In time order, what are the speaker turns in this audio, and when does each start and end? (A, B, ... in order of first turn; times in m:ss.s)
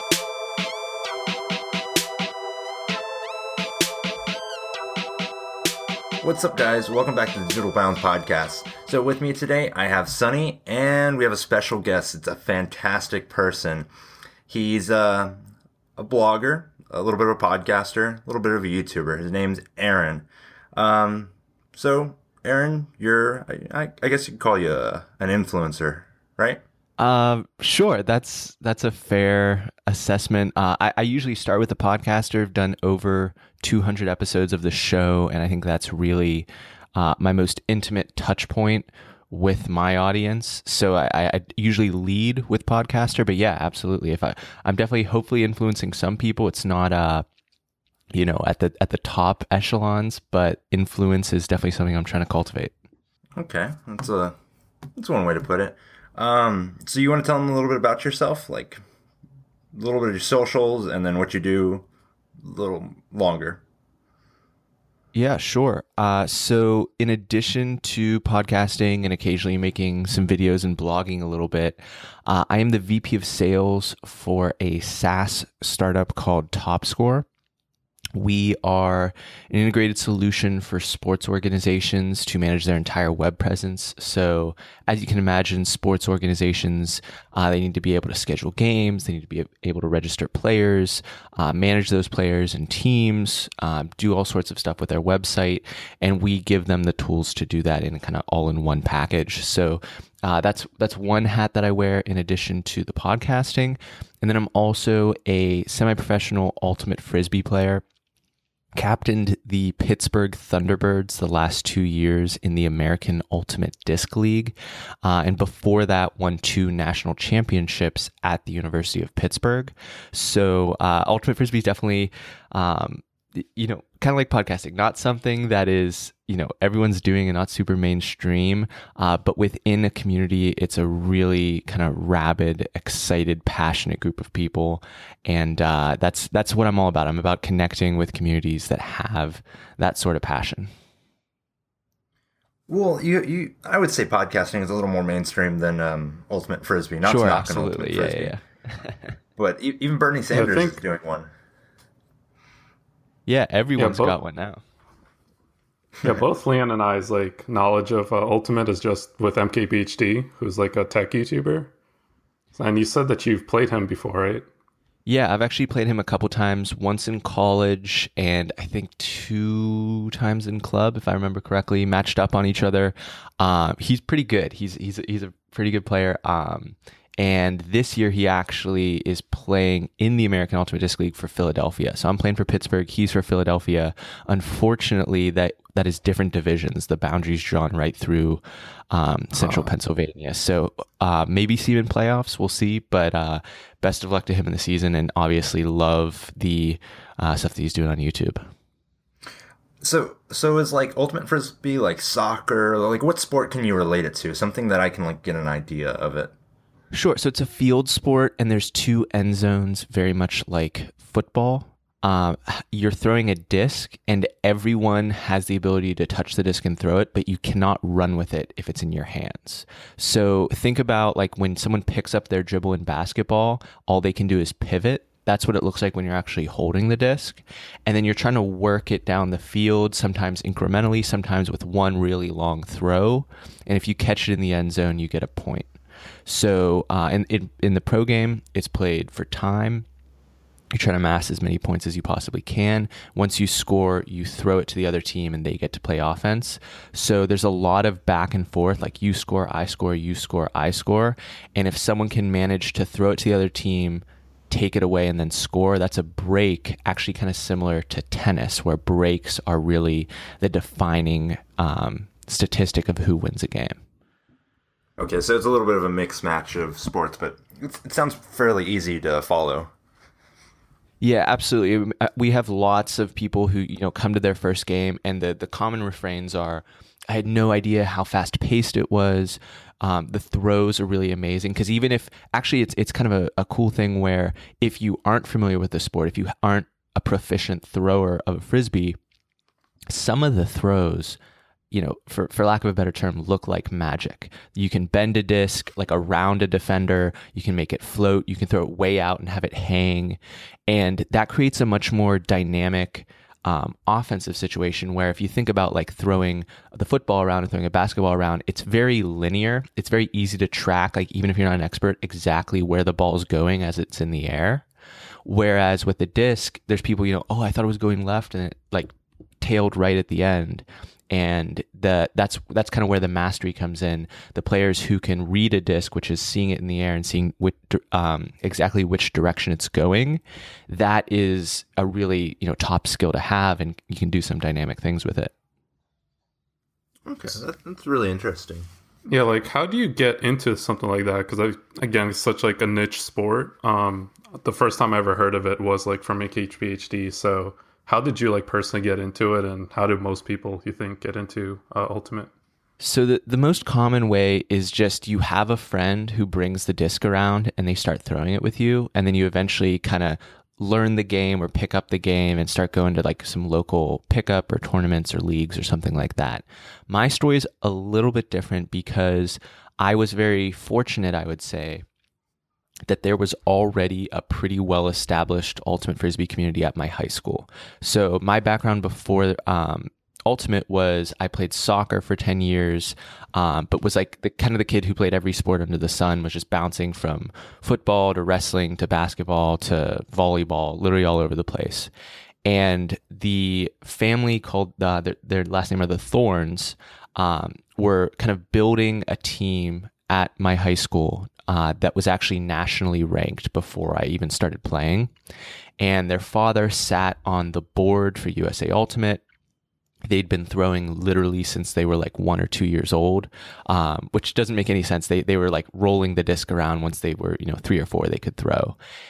0:06.2-0:13.9 A
0:14.5-0:15.4 A
0:16.0-0:26.6 A
0:27.0-0:47.2 B
0:48.1-0:52.7 B
0:53.4-0:54.4 A
0:55.0-0:58.8 A
0:59.7-1:01.8 A
1:02.4-1:03.6 A
1:05.1-1:17.3 B
1:18.2-1:47.8 B
1:48.8-2:20.7 B
2:22.7-2:28.3 A
2:27.0-2:29.1 B
2:29.4-2:31.3 A
2:30.3-2:30.8 C
2:33.3-2:34.6 B
2:33.8-2:34.2 C
2:36.0-2:41.7 C
2:42.5-2:44.5 C
2:45.1-3:18.4 B
3:09.4-3:09.7 C
3:19.8-3:26.3 A
3:26.9-3:55.8 B
3:56.3-3:59.9 B
4:00.7-4:23.8 B
4:25.0-4:29.7 A
4:31.0-4:49.0 B
4:49.9-4:51.2 B
4:51.7-5:14.6 B
5:15.2-5:35.3 B
5:37.1-5:38.7 A
5:39.1-5:52.3 C
5:52.8-6:11.8 B
6:12.9-6:31.9 B
6:32.4-6:45.1 B
6:45.8-6:49.2 B
6:50.0-6:58.8 B